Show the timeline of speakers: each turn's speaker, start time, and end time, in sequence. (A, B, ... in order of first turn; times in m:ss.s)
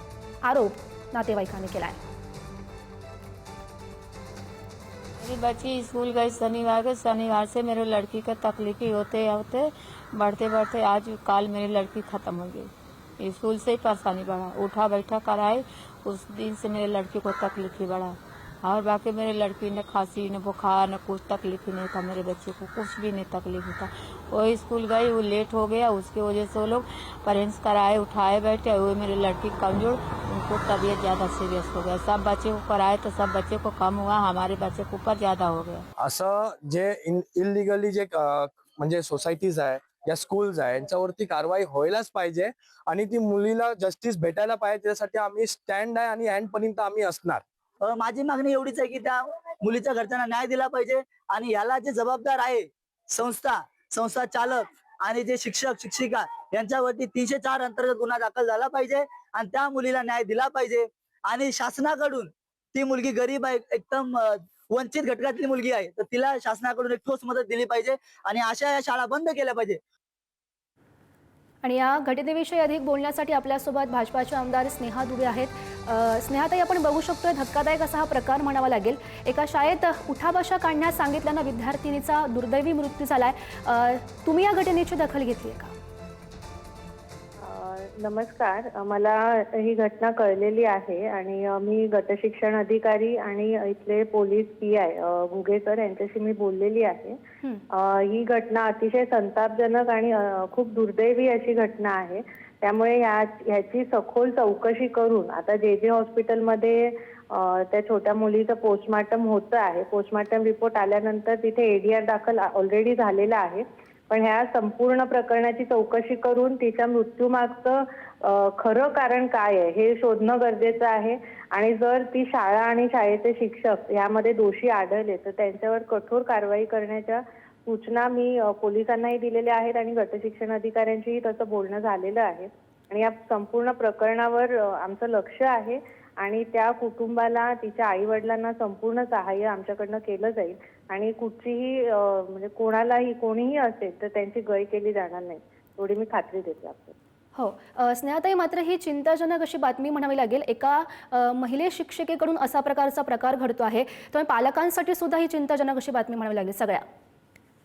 0:00.4-0:02.0 A
0:05.2-0:35.8 B
0:36.0-0:47.4 C
0:47.8-1:09.8 D
1:11.6-1:25.7 A
1:27.4-1:37.2 E
1:37.7-2:26.9 E
2:27.4-2:36.8 A